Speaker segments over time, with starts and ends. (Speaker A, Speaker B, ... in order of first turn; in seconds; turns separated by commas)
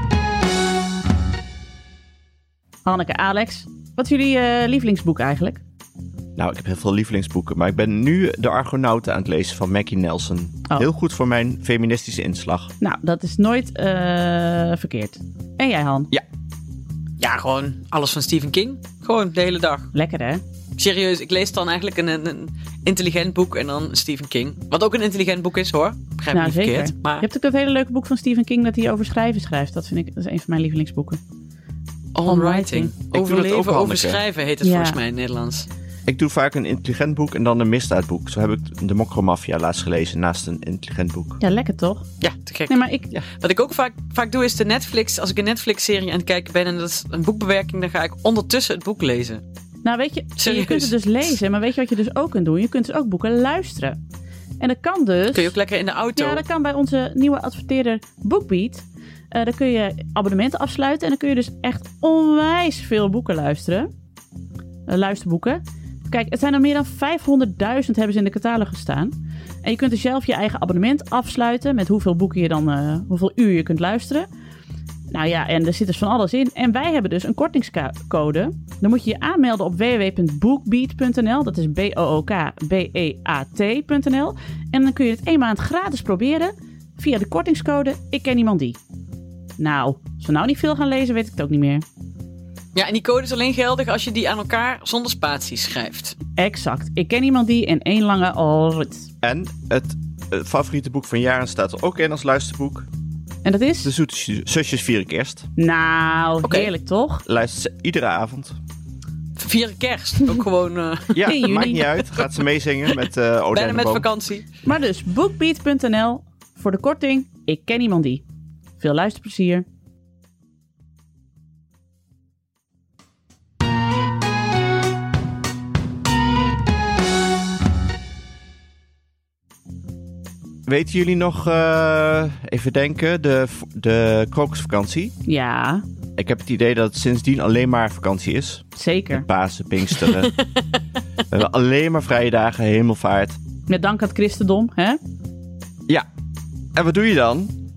Speaker A: 2.9-5.6, Speaker B: 6.3-12.7, Speaker A: 12.8-16.1, Speaker C: 17.2-19.9, Speaker A: 19.9-20.4, Speaker C: 20.8-27.2, Speaker A: 26.3-31.2, Speaker C: 32.1-35.7, Speaker A: 32.2-32.9, Speaker B: 33.1-34.2, Speaker A: 34.6-35.0, Speaker B: 36.1-41.4, Speaker A: 41.4-42.1, Speaker C: 42.4-49.4, Speaker A: 42.7-43.1, Speaker A: 49.8-54.0, Speaker C: 50.4-50.9, Speaker A: 54.6-55.5, Speaker C: 55.3-56.4, Speaker A: 56.1-63.9, Speaker A: 64.9-74.3, Speaker A: 75.1-88.8, Speaker A: 89.6-91.8, Speaker C: 92.7-96.2, Speaker A: 96.4-99.1, Speaker B: 99.2-102.9, Speaker A: 103.4-103.9, Speaker B: 103.8-105.5, Speaker A: 105.6-107.2, Speaker C: 106.4-106.7, Speaker B: 107.2-108.6, Speaker C: 109.4-111.3, Speaker B: 111.1-114.1, Speaker A: 111.2-111.9, Speaker C: 113.5-114.5, Speaker A: 114.6-118.2, Speaker A: 118.8-119.6, Speaker B: 130.7-135.1, Speaker A: 135.2-135.8, Speaker B: 136.2-140.3, Speaker A: 138.8-139.2, Speaker B: 141.3-143.4, Speaker A: 143.7-145.0, Speaker B: 146.7-147.6